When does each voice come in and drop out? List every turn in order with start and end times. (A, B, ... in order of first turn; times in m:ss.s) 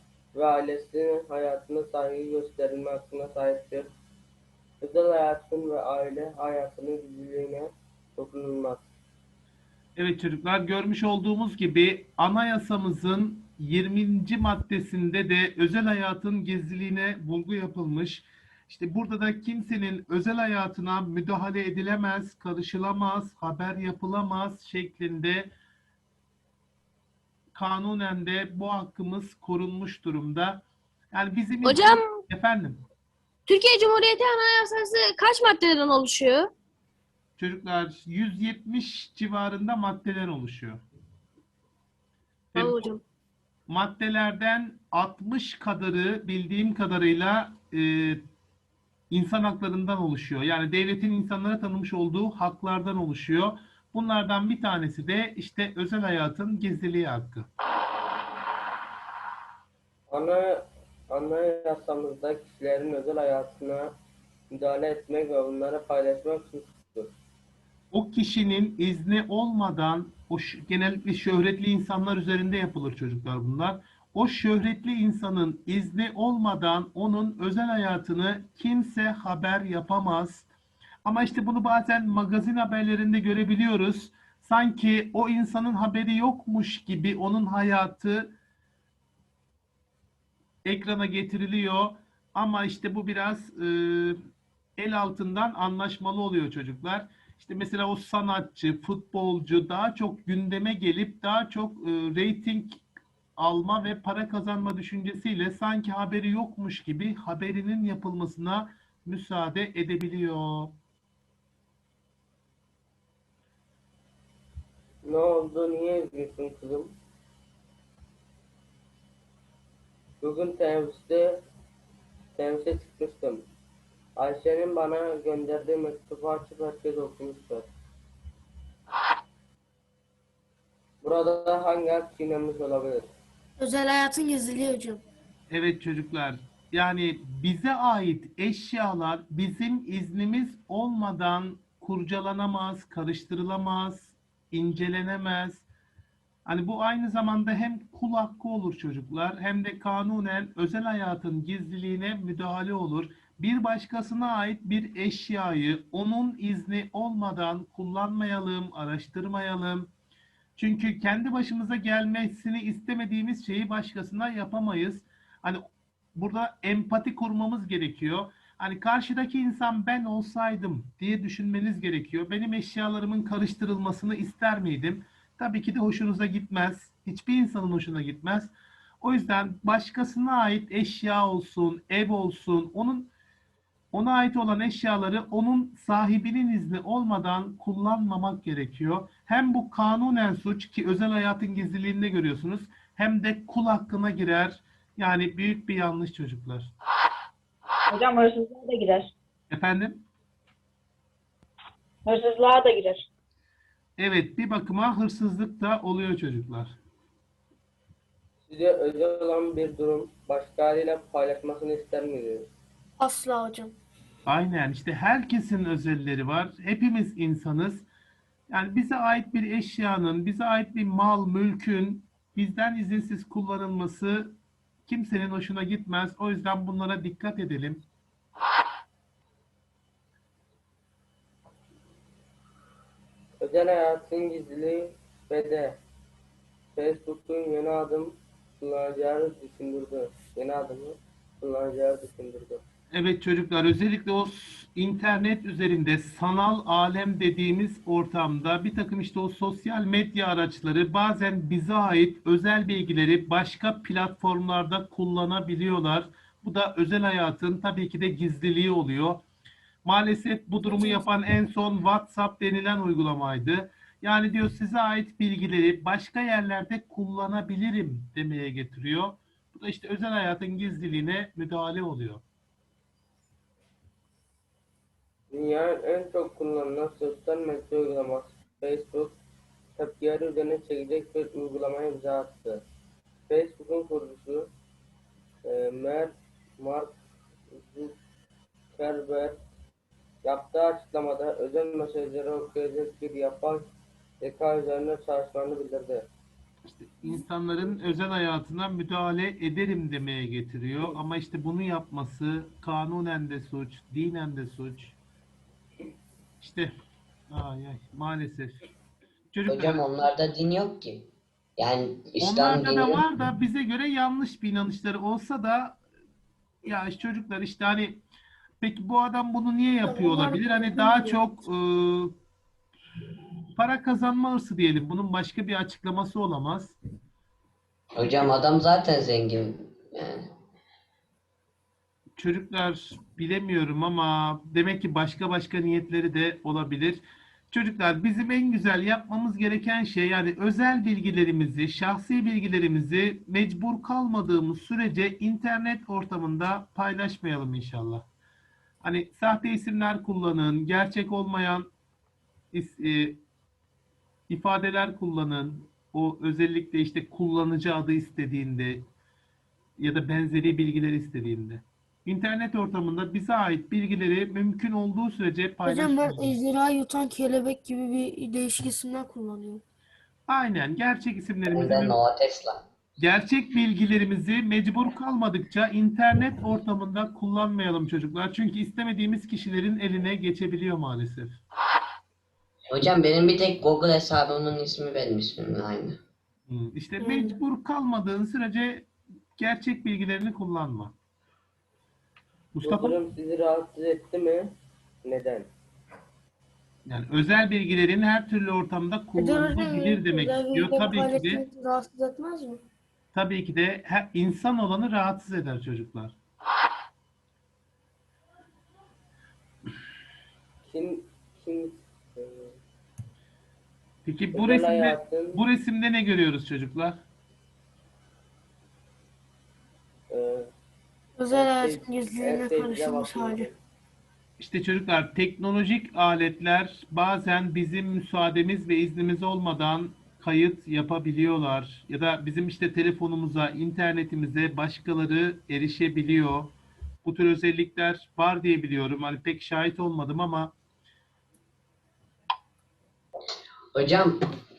0:00.3-0:03.9 A
0:04.8-0:08.9 A
0:10.0-0:25.5 B
0:27.5-0:32.8 B
0:31.6-0:32.2 C
0:33.5-0:36.5 C
0:37.4-0:40.8 B
0:42.5-0:42.9 B
0:42.5-0:43.0 C
0:43.7-0:48.2 B
0:49.1-0:57.5 B
1:00.1-1:03.9 A
1:04.5-1:07.1 A
1:07.9-1:20.5 B
1:21.0-1:28.3 B
1:30.6-1:34.2 B
1:34.8-1:42.8 B
1:43.4-1:50.7 B
1:55.0-1:56.9 A
2:00.2-2:01.4 A
2:02.3-2:03.4 A
2:04.2-2:07.7 A
2:11.0-2:13.1 A
2:13.6-2:15.0 D
2:15.5-2:25.6 B
2:26.4-2:39.9 B
2:40.6-2:45.6 B
2:46.2-3:03.1 B
3:03.9-3:16.7 B
3:17.9-3:19.1 E
3:19.5-3:20.0 B
3:22.0-3:23.0 E
3:24.0-3:26.7 B
3:28.5-3:32.5 A
3:33.0-3:33.7 D
3:34.2-3:37.8 B
3:38.5-3:47.8 B
3:53.4-3:55.8 A
3:56.7-4:02.6 A
4:02.9-4:19.2 B
4:19.8-4:32.2 B
4:20.6-4:21.0 D
4:35.3-4:39.2 A
4:39.8-4:42.6 A
4:43.3-4:44.5 A
4:45.4-4:46.9 A
4:47.5-4:48.0 A
4:48.8-4:49.4 A
4:50.2-4:53.7 A
4:54.2-4:56.1 A
4:56.6-5:05.0 B
5:06.4-5:06.7 B
5:07.3-5:08.7 B
5:09.3-5:09.8 B
5:09.5-5:13.0 F
5:12.2-5:15.8 B
5:16.6-5:18.0 B
5:18.6-5:22.1 B
5:19.8-5:21.2 D
5:23.6-5:26.8 B
5:28.0-5:30.3 F
5:32.2-5:48.0 B
5:48.8-5:51.7 B
5:52.5-5:53.2 B
5:54.3-5:58.9 B
5:59.8-6:06.3 B
6:05.6-6:09.6 D
6:10.3-6:12.0 B
6:11.4-6:12.6 F
6:13.0-6:21.4 B
6:22.7-6:26.0 F
6:26.5-6:30.9 B
6:27.0-6:27.4 D
6:32.5-6:33.0 B
6:32.6-6:34.5 A
6:35.0-6:35.5 A
6:36.8-6:41.4 B
6:39.2-6:42.6 D
6:43.1-6:46.2 B
6:50.6-6:52.5 A
6:54.0-6:57.0 B
6:54.3-6:55.4 A
7:00.1-7:00.5 A
7:01.2-7:03.5 D
7:01.3-7:03.6 A
7:04.4-7:20.5 B
7:23.7-7:24.2 F